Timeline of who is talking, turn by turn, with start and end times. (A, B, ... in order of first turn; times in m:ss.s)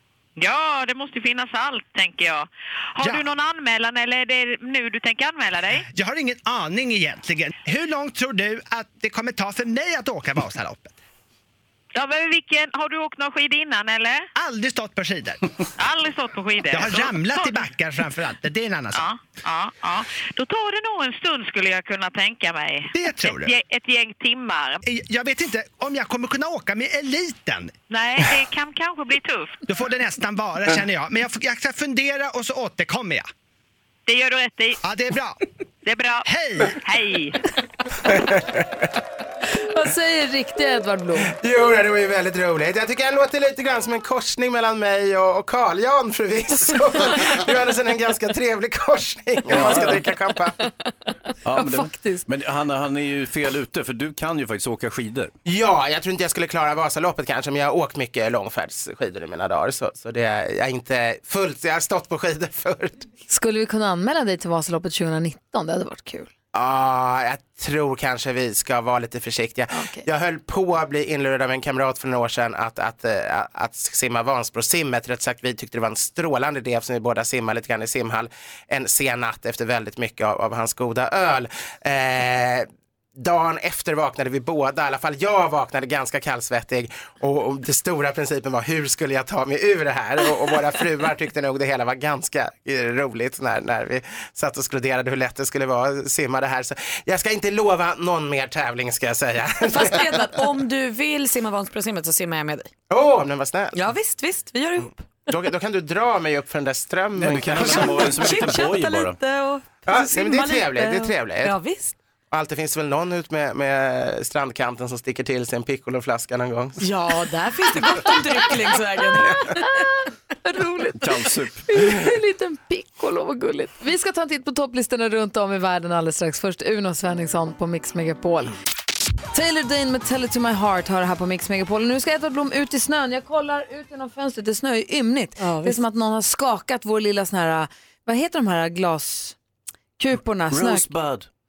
0:00.4-0:05.9 A
0:03.0-0:03.3 B
0:05.9-0:11.0 B
0:11.9-0:14.3 A
0:14.4-0:15.4 B
0:15.8-0:17.7 A
0:16.7-0:19.0 B
0:18.9-0:24.8 A
0:22.9-0:23.5 B
0:24.8-0:27.7 B
0:27.9-0:29.6 A
0:29.7-0:33.3 B
0:34.0-0:34.8 A
0:34.8-0:35.4 B
0:35.8-0:37.4 A
0:36.2-0:36.7 B
0:38.0-0:38.7 C
0:39.7-0:41.3 D
0:41.3-0:50.6 C
0:49.5-0:50.0 E
0:51.4-0:55.3 E
0:51.6-0:52.2 D
0:55.4-1:03.1 C
1:03.3-1:06.3 D
1:06.5-1:40.3 C
1:09.7-1:10.0 D
1:39.6-1:42.7 F
1:42.9-1:43.8 C
1:43.7-1:45.0 F
1:45.3-1:48.4 C
1:47.1-1:49.2 E
1:47.5-1:51.9 F
1:49.8-1:51.6 C
1:52.3-1:56.8 C
1:56.8-1:59.8 F
2:00.4-2:01.0 D
2:01.0-2:01.6 E
2:01.7-2:08.5 D
2:09.3-2:19.4 D
2:15.4-2:15.8 F
2:20.0-2:20.9 D
2:20.5-2:21.3 E